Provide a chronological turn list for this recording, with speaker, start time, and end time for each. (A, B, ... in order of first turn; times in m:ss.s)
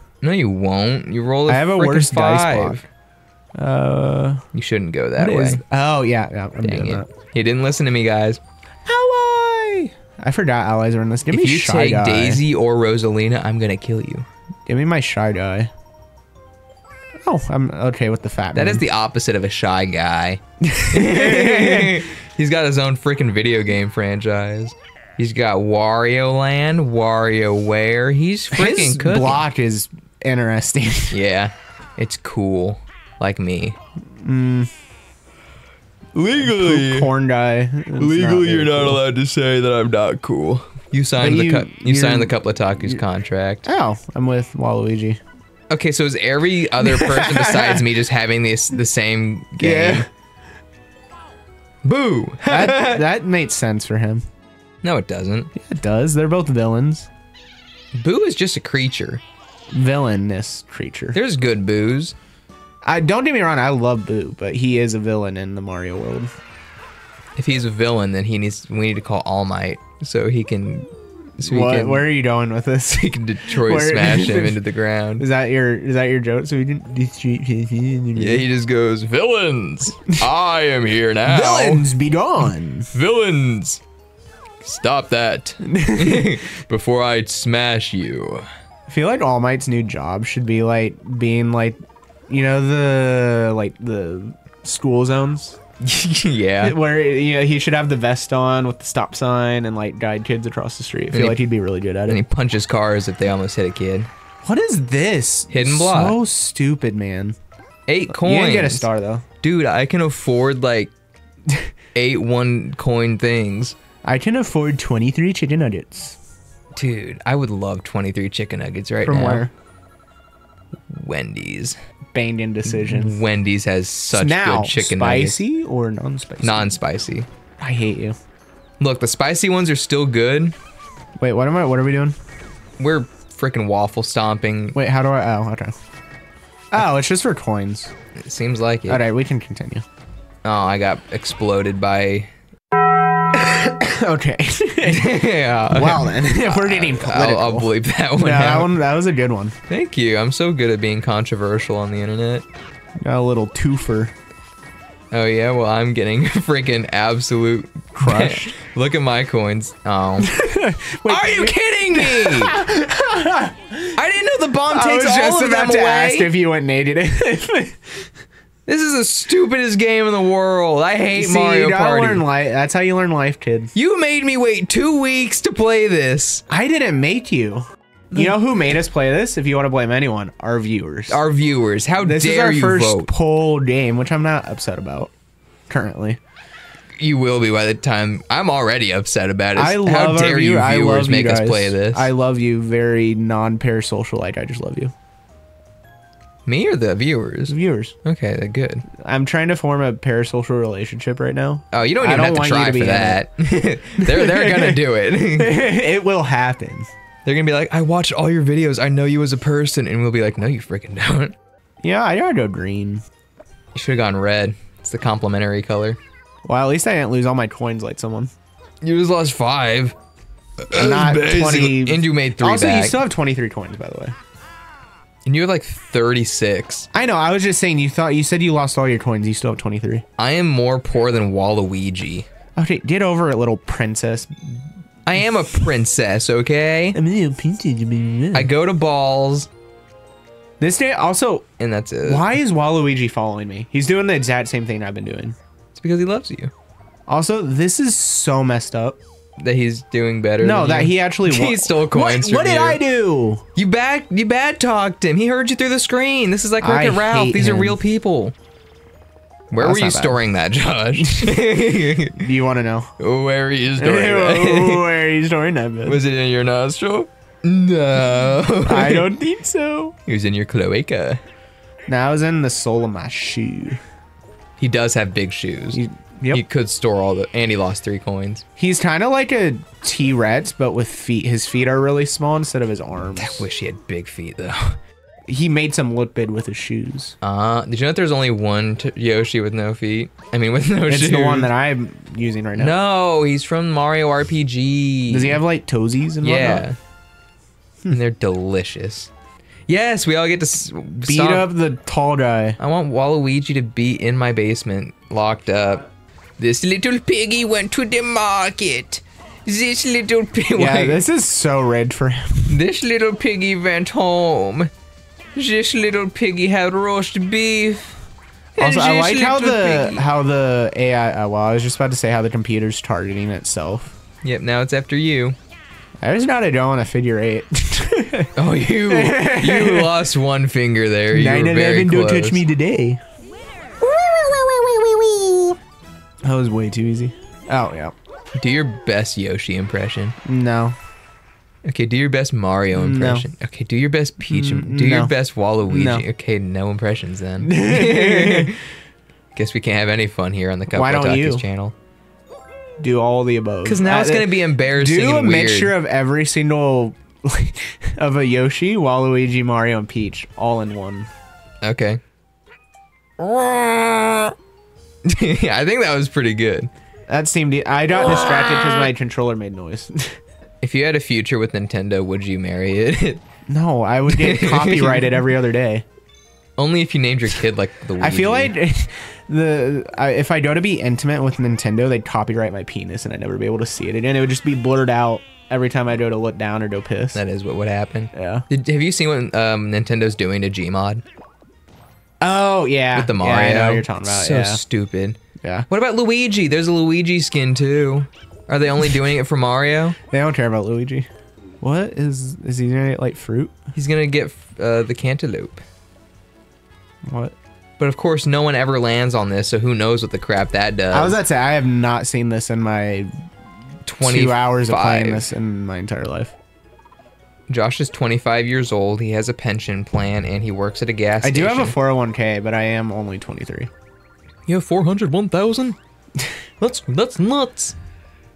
0:00.2-0:02.8 A
0:01.5-0:02.9 B
0:03.6-0:04.4 B
0:04.5-0:05.6 A
0:05.2-0:07.1 B
0:06.6-0:08.4 A
0:08.9-0:12.4 B
0:11.3-0:14.3 A
0:14.7-0:15.7 B
0:17.2-0:18.8 B
0:18.5-0:20.4 A
0:20.6-0:22.0 B
0:20.9-0:29.4 A
0:28.5-0:31.2 B
0:31.1-0:33.8 A
0:34.2-0:34.7 B
0:36.2-0:37.1 A
0:36.3-0:39.0 B
0:38.0-0:43.6 A
0:41.2-0:43.0 B
0:43.6-0:45.2 B
0:45.7-0:50.1 A
0:46.8-0:47.9 B
0:49.6-0:50.1 B
0:51.8-0:53.1 A
0:52.5-0:54.2 B
0:54.8-0:55.5 A
0:55.5-0:57.1 B
0:58.0-0:59.2 A
0:59.7-1:01.2 B
1:01.1-1:02.2 A
1:02.8-1:06.3 B
1:07.4-1:12.1 A
1:11.4-1:14.6 B
1:12.9-1:15.2 A
1:15.2-1:18.4 B
1:18.2-1:21.9 A
1:21.3-1:22.9 B
1:22.9-1:23.8 A
1:24.6-1:28.4 A
1:25.6-1:26.4 B
1:28.9-1:35.6 B
1:35.8-1:36.8 A
1:36.6-1:42.2 B
1:41.1-1:41.4 A
1:42.1-1:44.1 A
1:44.4-1:47.4 B
1:45.5-1:46.2 A
1:47.9-1:48.9 A
1:48.1-1:49.2 B
1:49.4-1:50.9 A
1:52.0-1:53.8 A
1:54.0-1:56.2 B
1:56.8-1:59.5 A
1:59.0-1:59.5 B
2:00.9-2:01.8 A
2:02.1-2:03.2 B
2:02.6-2:05.4 A
2:04.1-2:06.8 B
2:06.4-2:07.3 A
2:07.6-2:08.2 B
2:08.8-2:10.6 A
2:11.2-2:12.2 B
2:12.8-2:14.8 A
2:14.8-2:15.7 B
2:16.7-2:17.9 B
2:18.2-2:19.1 A
2:18.9-2:19.8 B
2:20.4-2:22.3 A
2:23.4-2:29.6 B
2:24.8-2:28.8 A
2:29.7-2:32.4 A
2:33.0-2:34.1 B
2:35.1-2:40.3 A
2:38.0-2:38.6 B
2:40.2-2:43.9 B
2:41.1-2:42.6 A
2:44.0-2:46.3 A
2:44.7-2:48.1 B
2:48.7-2:52.2 A
2:51.2-2:53.7 B
2:53.7-2:56.4 A
2:56.5-3:01.2 B
3:01.1-3:03.1 A
3:02.0-3:05.1 B
3:05.7-3:06.2 B
3:07.0-3:12.1 A
3:09.6-3:14.9 B
3:16.5-3:18.8 A
3:17.5-3:18.0 B
3:19.0-3:23.2 B
3:21.7-3:25.6 A
3:24.0-3:24.8 B
3:25.4-3:26.9 B
3:27.2-3:31.4 A
3:31.8-3:33.0 B
3:33.7-3:36.0 A
3:36.5-3:38.3 B
3:38.8-3:40.0 A
3:40.6-3:43.0 A
3:40.7-3:44.2 B
3:45.3-3:46.9 A
3:46.9-3:50.0 B
3:50.2-3:52.3 A
3:52.6-3:54.6 B
3:55.0-3:57.0 A
3:57.0-3:58.5 B
3:58.3-3:59.5 A
4:00.6-4:01.5 B
4:01.6-4:02.3 A
4:02.0-4:05.4 B
4:05.8-4:06.5 A
4:07.1-4:09.0 B
4:09.4-4:12.8 A
4:10.4-4:13.4 B
4:13.6-4:18.4 A
4:16.6-4:17.8 B
4:19.5-4:22.3 A
4:19.6-4:20.2 B
4:21.0-4:22.9 B
4:23.0-4:24.9 A
4:23.8-4:26.0 B
4:25.9-4:29.1 A
4:28.7-4:30.0 B
4:30.1-4:31.2 A
4:31.9-4:33.8 B
4:34.6-4:35.8 A
4:35.7-4:36.4 B
4:36.3-4:38.4 A
4:38.6-4:43.5 B
4:43.2-4:44.8 A
4:45.3-4:47.2 B
4:47.2-4:51.5 A
4:50.9-4:52.8 B
4:52.6-4:55.4 A
4:55.1-4:56.7 B
4:56.2-4:56.8 A
4:57.9-4:59.1 A
4:59.7-5:01.5 A
5:01.0-5:02.6 B
5:02.6-5:05.9 A
5:06.4-5:11.0 A
5:10.6-5:12.6 B
5:12.5-5:14.7 A
5:15.4-5:18.0 A
5:18.6-5:20.1 A
5:18.6-5:24.0 B
5:24.2-5:25.4 A
5:26.0-5:30.0 B
5:28.4-5:32.4 A
5:31.1-5:33.0 B
5:33.8-5:35.6 B
5:36.2-5:37.9 B
5:38.4-5:40.2 A
5:40.3-5:40.8 B
5:41.6-5:48.5 A
5:42.7-5:43.3 B
5:44.3-5:45.1 B
5:45.6-5:46.0 B
5:47.4-5:48.6 B
5:49.4-5:51.7 A
5:50.7-5:51.5 B
5:52.8-6:01.1 B
5:53.6-5:55.8 A
6:01.6-6:02.0 A
6:03.2-6:04.4 A
6:05.0-6:06.7 A
6:07.1-6:10.2 B
6:08.0-6:08.9 A
6:10.6-6:13.2 A
6:13.5-6:15.8 B
6:14.1-6:15.2 A
6:16.6-6:18.5 A
6:18.0-6:27.2 B
6:27.2-6:31.0 A
6:28.1-6:28.5 B
6:32.2-6:34.6 B
6:32.9-6:40.0 A
6:40.1-6:41.1 B
6:41.6-6:43.6 B
6:43.8-6:45.6 A
6:47.1-6:47.4 B
6:47.8-6:51.2 A
6:50.9-6:53.1 B
6:53.9-6:55.3 A
6:54.0-6:56.4 B
6:57.5-7:01.8 A
7:01.2-7:03.7 B
7:04.5-7:05.8 A
7:06.6-7:07.8 A